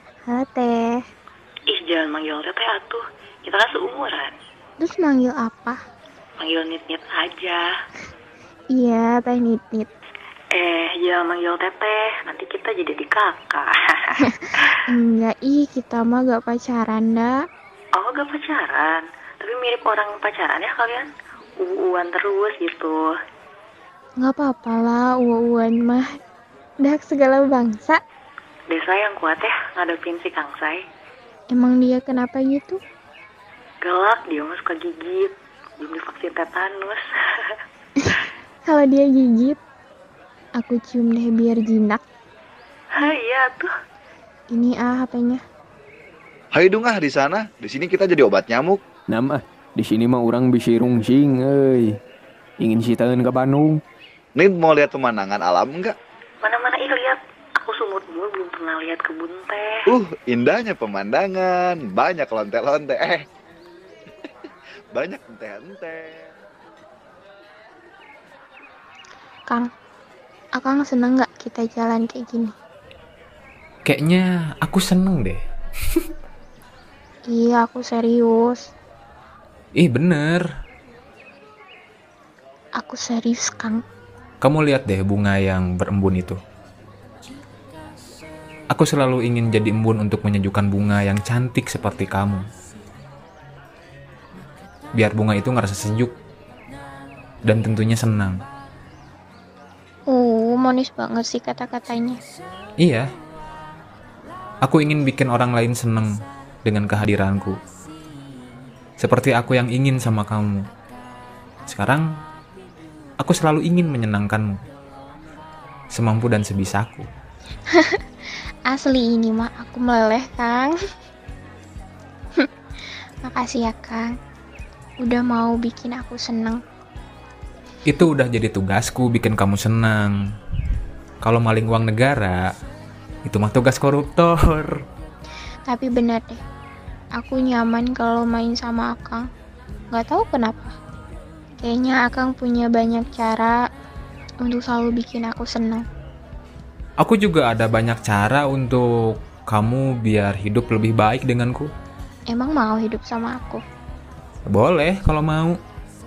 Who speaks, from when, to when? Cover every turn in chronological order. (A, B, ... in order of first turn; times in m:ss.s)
0:00.3-0:01.0 A
0:01.7-0:04.3 B
0:04.8-0:05.8 A
0:06.4-0:07.6 B
0:08.7-0:09.9 A
0:10.5-0:14.7 B
0:14.8-0:17.4 A
0:17.9-0:21.0 B
0:21.6-0:23.1 B
0:24.2-0:26.0 A
0:26.8-0:28.0 A
0:28.7-0:30.8 B
0:31.5-0:32.8 A
0:33.8-0:37.6 B
0:38.0-0:39.6 A
0:40.6-0:42.0 A
0:43.0-0:43.7 B
0:44.5-0:45.4 A
0:46.5-0:48.8 C
0:49.1-0:52.0 D
0:52.6-0:53.8 D
0:54.4-0:55.9 C
0:56.4-0:59.8 B
0:59.9-1:03.2 C
1:04.9-1:06.3 C
1:10.6-1:12.5 A
1:13.8-1:15.4 E
1:17.3-1:18.7 A
1:19.7-1:20.4 E
1:22.8-1:23.8 A
1:24.4-1:26.4 E
1:28.7-1:32.4 E
1:34.9-1:36.1 E
1:37.4-1:38.4 E
1:40.1-1:42.2 A
1:42.8-1:43.0 E
1:44.6-1:46.1 E
1:46.6-1:47.6 E
1:49.0-1:50.7 E
1:51.7-1:52.1 E
1:53.2-1:54.5 E
1:55.9-1:57.1 E
1:58.7-2:00.7 A
2:03.2-2:04.1 A
2:05.0-2:06.6 A
2:07.8-2:10.1 E
2:11.2-2:12.4 E
2:13.2-2:14.8 E
2:15.7-2:16.4 A
2:17.2-2:19.2 A
2:19.9-2:20.7 A
2:21.6-2:23.6 A
2:24.4-2:25.8 A
2:27.0-2:31.7 E
2:32.3-2:33.6 A
2:34.5-2:35.6 E